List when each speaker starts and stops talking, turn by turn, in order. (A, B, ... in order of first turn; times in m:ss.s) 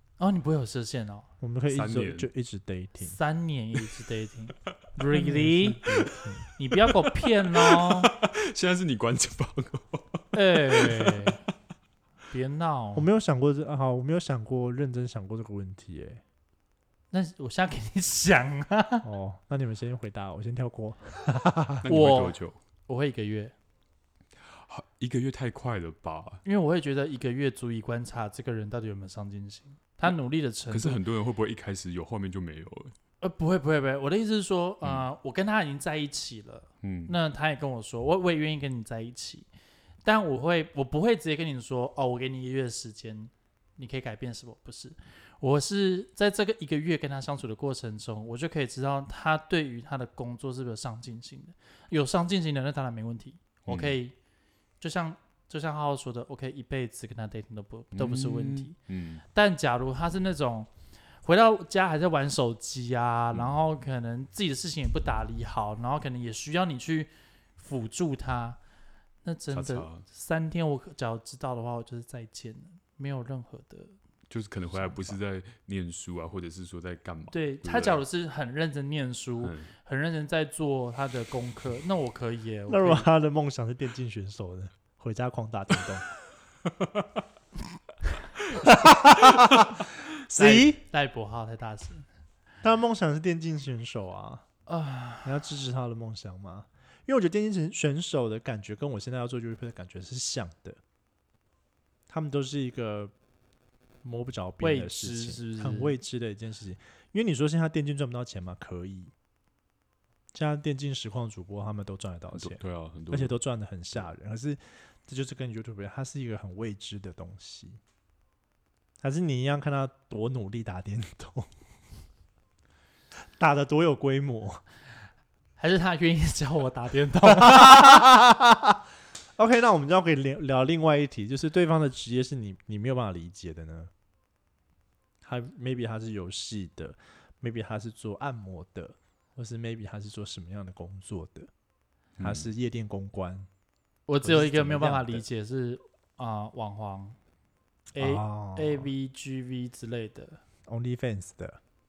0:00.2-0:01.3 A
0:01.4-0:03.2 B
0:01.7-0:02.3 C
0:03.0-0:05.8 A
0:05.1-0:06.5 B
0:06.6-0:08.1 A
0:06.9-0:11.4 C
0:10.3-0:11.4 A
0:12.3-0:13.1 A
0:13.0-0:16.2 B
0:17.1-0:19.1 A
0:19.0-0:21.8 B
0:21.8-0:22.6 C
0:21.9-0:23.5 A
0:24.4-0:26.4 C
0:26.4-0:31.0 A
0:30.7-0:33.0 C
0:33.2-0:39.5 A
0:34.8-0:35.1 C
0:36.8-0:37.2 C
0:40.0-0:54.2 A
0:53.7-0:54.0 C
0:54.8-0:58.8 A
0:57.9-0:59.2 C
0:59.3-1:00.7 A
1:01.2-1:08.6 A
1:09.2-1:14.0 A
1:09.5-1:10.0 C
1:14.3-1:18.0 C
1:14.7-1:15.2 A
1:17.3-1:23.1 A
1:19.4-1:19.7 C
1:22.7-1:26.1 B
1:28.6-1:30.8 B
1:30.3-1:32.1 A
1:32.6-1:34.5 B
1:34.7-1:35.4 A
1:35.2-1:40.8 B
1:42.1-1:43.1 B
1:44.0-1:49.1 B
1:44.6-1:46.0 A
1:50.3-1:57.8 B
1:52.3-1:53.4 C
1:59.0-2:01.5 B
2:03.4-2:04.6 B
2:05.6-2:08.0 A
2:07.3-2:08.8 B
2:09.4-2:13.9 B
2:15.2-2:21.5 B
2:22.2-2:22.5 C
2:22.2-2:23.5 B
2:24.1-2:27.2 A
2:24.2-2:25.2 B
2:27.9-2:30.4 A
2:28.0-2:28.9 B
2:30.7-2:31.6 B